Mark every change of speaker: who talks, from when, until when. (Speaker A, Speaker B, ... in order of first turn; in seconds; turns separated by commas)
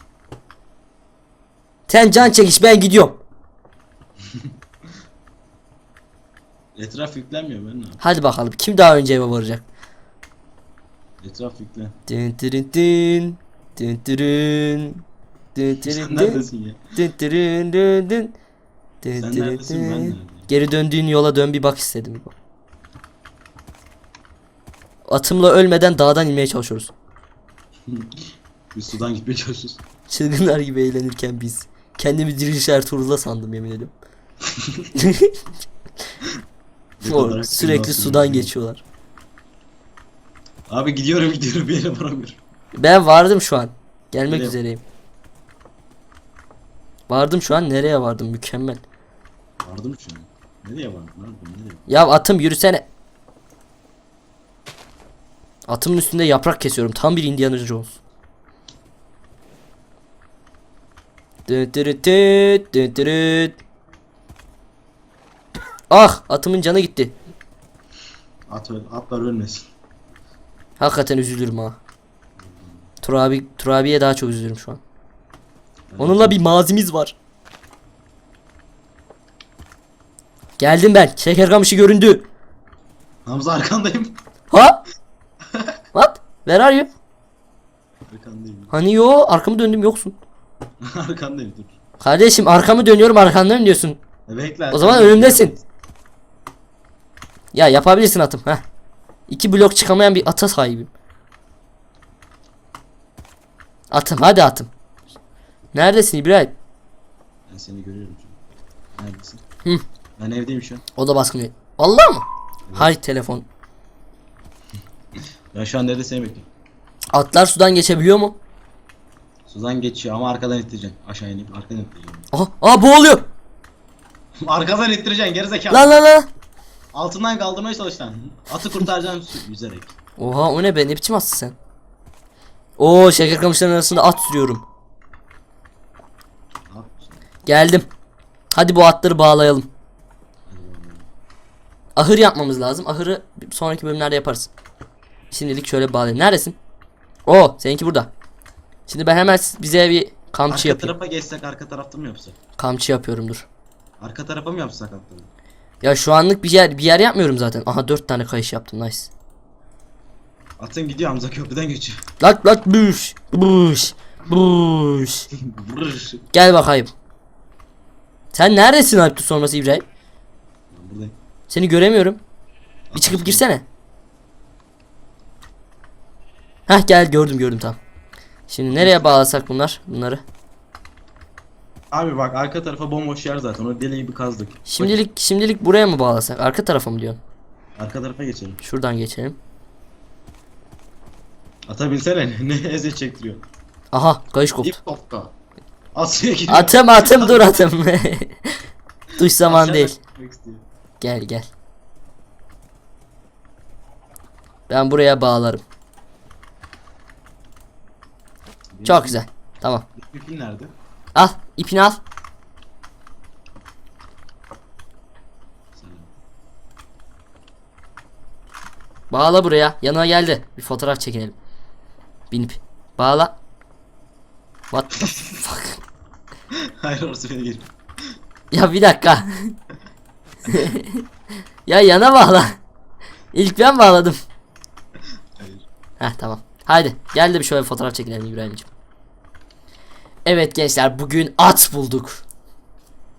Speaker A: 1.9-3.2, Speaker B: 6.8-8.0, Speaker A: 8.0-9.7, Speaker B: 11.2-12.0, Speaker A: 12.1-15.0, Speaker A: 15.6-18.4, Speaker B: 15.8-16.8, Speaker A: 19.0-22.3, Speaker B: 19.2-20.5, Speaker A: 25.1-26.9, Speaker B: 27.9-29.8, Speaker A: 30.1-33.9, Speaker B: 34.5-34.9, Speaker A: 35.0-35.4, Speaker B: 37.0-38.5, Speaker A: 37.0-38.8, Speaker B: 40.7-42.4, Speaker A: 42.7-44.8, Speaker B: 44.3-44.5, Speaker A: 47.1-48.8, Speaker B: 49.6-51.9, Speaker A: 51.9-52.9, Speaker A: 55.7-58.0, Speaker A: 61.5-63.6, Speaker A: 65.9-67.1, Speaker B: 68.5-69.7, Speaker A: 70.8-71.8, Speaker B: 72.4-72.8, Speaker A: 73.0-74.8, Speaker B: 75.9-76.6, Speaker A: 76.0-77.2, Speaker A: 80.6-82.3, Speaker B: 83.3-84.2, Speaker A: 84.5-84.8, Speaker B: 85.5-85.8, Speaker A: 85.9-86.9, Speaker B: 88.1-88.7, Speaker A: 88.7-90.2, Speaker B: 90.8-91.8, Speaker A: 92.0-94.0, Speaker B: 94.3-95.7, Speaker A: 94.7-95.5, Speaker A: 97.5-98.6, Speaker A: 99.3-100.9, Speaker A: 103.9-104.7, Speaker A: 105.7-106.5, Speaker B: 107.5-108.4, Speaker B: 109.0-109.4, Speaker B: 110.2-110.8, Speaker A: 111.0-112.2, Speaker B: 112.7-112.9, Speaker A: 112.8-113.5, Speaker B: 115.5-116.5, Speaker A: 117.1-118.4, Speaker B: 119.5-122.3, Speaker A: 122.3-123.3, Speaker B: 124.4-126.0, Speaker A: 125.7-126.3, Speaker B: 126.9-129.9, Speaker A: 130.2-131.6, Speaker A: 132.8-134.6, Speaker B: 136.7-137.2, Speaker A: 137.5-137.9, Speaker A: 138.5-139.7, Speaker B: 140.5-141.1, Speaker A: 142.0-144.5, Speaker A: 145.3-146.6, Speaker A: 147.3-148.1, Speaker A: 148.9-150.9, Speaker B: 150.5-152.4, Speaker A: 152.6-153.5, Speaker B: 154.0-155.3, Speaker A: 155.8-159.1, Speaker B: 160.6-162.1, Speaker A: 162.2-165.3, Speaker B: 165.4-166.3, Speaker A: 166.3-166.9, Speaker A: 168.3-169.8, Speaker B: 170.7-171.2, Speaker A: 171.5-172.2, Speaker B: 172.9-173.4, Speaker A: 172.9-173.6, Speaker A: 176.7-177.8, Speaker A: 178.5-180.2, Speaker B: 178.7-179.1, Speaker B: 181.9-185.0, Speaker A: 184.7-187.2, Speaker B: 187.8-188.6, Speaker A: 188.6-189.4, Speaker B: 191.7-193.5, Speaker A: 193.9-194.8, Speaker B: 194.6-195.3, Speaker B: 195.9-197.5, Speaker A: 196.5-198.3, Speaker A: 199.2-200.0, Speaker B: 199.4-200.6, Speaker A: 201.0-201.5, Speaker A: 204.7-205.6, Speaker B: 208.7-209.2, Speaker A: 208.8-209.9, Speaker B: 209.9-210.7, Speaker A: 211.2-212.0, Speaker B: 215.8-216.1, Speaker A: 219.1-221.3, Speaker A: 222.3-223.4, Speaker A: 224.7-225.8, Speaker B: 226.5-227.7, Speaker A: 228.5-229.6, Speaker A: 230.5-231.0, Speaker A: 231.7-232.6, Speaker A: 233.3-234.2, Speaker B: 235.4-235.6, Speaker A: 236.0-238.7, Speaker A: 240.3-242.2